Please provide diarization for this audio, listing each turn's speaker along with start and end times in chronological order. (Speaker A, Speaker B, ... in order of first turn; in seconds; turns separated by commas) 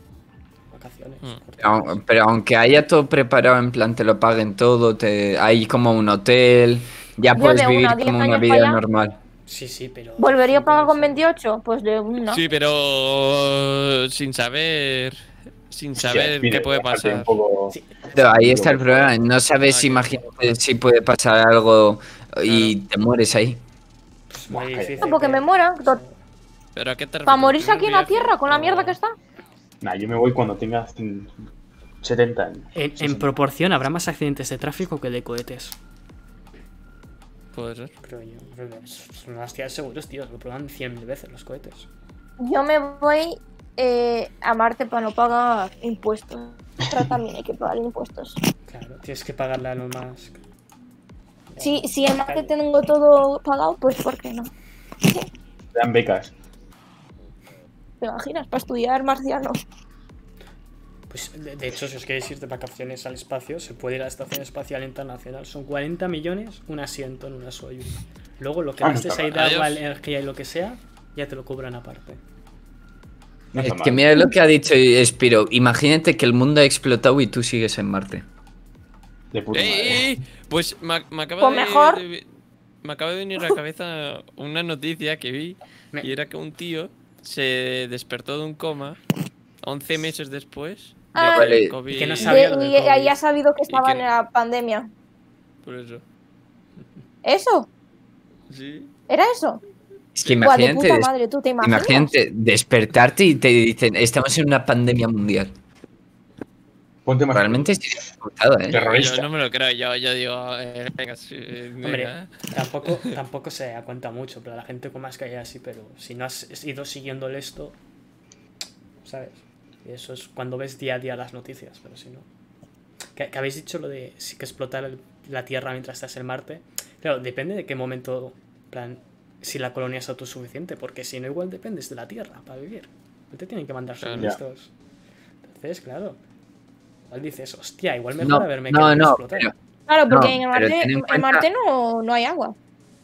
Speaker A: 0.7-2.0, Speaker B: 1.6-9.2, Speaker C: 7.3-8.8, Speaker A: 9.5-11.2, Speaker C: 10.2-12.4, Speaker D: 12.3-17.3, Speaker E: 16.0-19.1, Speaker A: 17.7-18.0, Speaker B: 18.1-23.6, Speaker D: 19.7-20.2, Speaker D: 22.4-22.7, Speaker A: 24.3-26.2, Speaker E: 24.5-25.2, Speaker C: 25.0-26.0, Speaker D: 26.8-28.9, Speaker C: 27.3-29.1, Speaker A: 28.5-28.8, Speaker E: 29.8-31.3, Speaker E: 32.0-33.3, Speaker A: 32.8-35.8, Speaker D: 37.5-37.9, Speaker A: 38.0-41.9, Speaker C: 42.4-48.4, Speaker A: 48.7-50.4, Speaker A: 51.5-52.5, Speaker C: 51.6-54.5, Speaker E: 55.7-56.3, Speaker C: 58.0-59.6, Speaker A: 61.1-72.2, Speaker E: 68.8-69.4, Speaker D: 69.3-69.8, Speaker E: 73.5-74.2, Speaker B: 73.6-78.2, Speaker E: 79.3-80.0, Speaker D: 79.5-82.3, Speaker C: 81.4-82.0, Speaker D: 82.8-89.0, Speaker D: 89.6-92.5, Speaker C: 91.2-91.6, Speaker B: 91.3-91.7, Speaker A: 91.9-93.2, Speaker C: 92.2-94.9, Speaker D: 93.7-94.1, Speaker D: 95.6-96.0, Speaker C: 97.2-97.7, Speaker D: 98.5-98.9, Speaker C: 99.1-99.6, Speaker B: 100.2-105.5, Speaker C: 100.4-102.1, Speaker E: 107.1-107.7, Speaker B: 107.3-108.9, Speaker E: 108.7-109.3, Speaker D: 108.9-113.0, Speaker A: 111.8-117.8, Speaker A: 119.0-122.3, Speaker A: 123.2-134.7, Speaker D: 134.0-134.3, Speaker A: 135.4-136.2, Speaker A: 137.1-139.5, Speaker B: 138.2-139.5, Speaker C: 139.9-142.6, Speaker B: 140.1-141.5